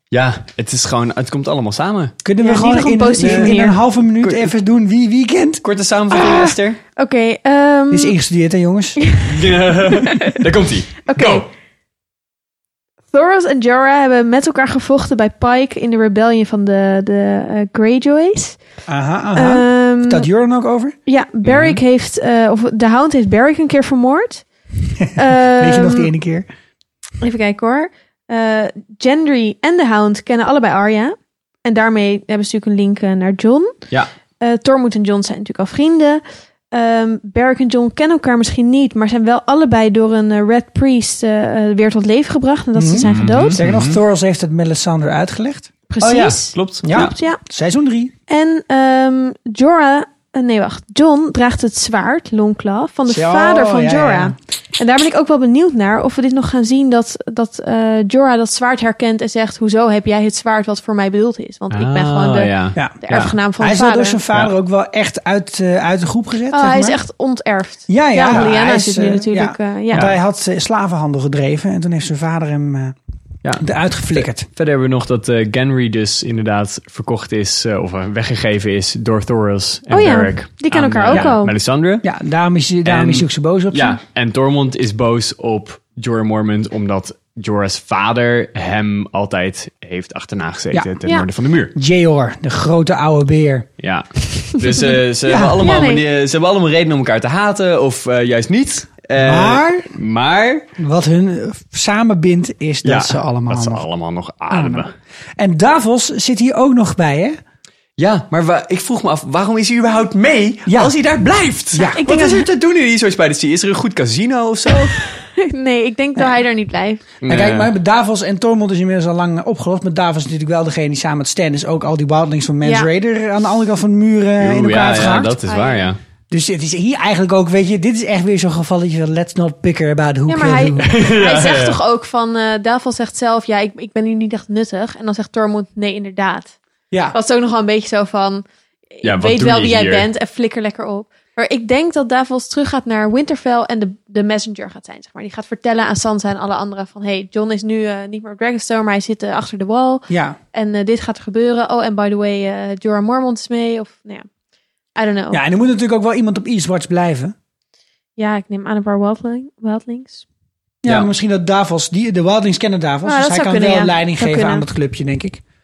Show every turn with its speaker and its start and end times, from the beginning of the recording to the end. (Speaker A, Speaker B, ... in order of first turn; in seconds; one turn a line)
Speaker A: 0.1-2.1
Speaker B: 2.2-5.6
Speaker C: 2.4-3.8
Speaker A: 3.2-3.6
Speaker A: 4.2-4.5
Speaker A: 5.6-6.8
Speaker C: 6.1-8.1
Speaker B: 7.9-9.0
Speaker A: 9.2-11.4
Speaker C: 9.9-10.4
Speaker C: 11.1-11.4
Speaker C: 13.1-18.6
Speaker B: 18.9-20.9
Speaker C: 19.3-20.3
Speaker C: 21.1-24.4
Speaker A: 21.4-21.8
Speaker C: 25.1-26.1
Speaker B: 25.3-26.5
Speaker C: 27.2-33.8
Speaker C: 34.4-36.2
Speaker C: 36.7-43.6
Speaker B: 42.7-45.7
Speaker A: 43.0-44.0
Speaker C: 45.9-47.4
Speaker A: 46.0-47.1
Speaker B: 46.8-48.1
Speaker C: 48.3-64.2
Speaker B: 53.1-54.3
Speaker A: 61.7-63.4
Speaker B: 62.7-63.0
Speaker B: 63.6-67.0
Speaker C: 66.5-70.1
Speaker B: 67.9-73.0
Speaker B: 73.6-74.5
Speaker A: 74.1-82.0
Speaker C: 79.9-81.5
Speaker B: 81.1-81.4
Speaker B: 82.0-84.0
Speaker A: 82.8-91.7
Speaker B: 91.7-93.7
Speaker A: 93.8-100.7
Speaker B: 95.2-95.6
Speaker C: 95.6-96.0
Speaker B: 99.2-99.9
Speaker B: 100.8-103.9
Speaker A: 102.8-104.9
Speaker B: 104.5-104.8
Speaker B: 105.4-107.4
Speaker A: 108.0-114.9
Speaker B: 110.7-111.0
Speaker B: 111.7-112.0
Speaker C: 112.0-112.5
Speaker C: 114.7-117.0
Speaker A: 117.2-117.7
Speaker B: 117.2-125.4
Speaker C: 122.6-122.9
Speaker A: 124.4-126.0
Speaker C: 125.5-125.9
Speaker B: 126.3-130.9
Speaker C: 130.3-136.6
Speaker A: 130.9-131.8
Speaker C: 137.1-138.4
Speaker C: 139.0-154.2
Speaker A: 139.0-140.1
Speaker B: 150.1-150.4
Speaker C: 154.9-155.4
Speaker B: 155.3-157.3
Speaker C: 158.2-160.2
Speaker B: 160.8-165.4
Speaker C: 163.1-164.7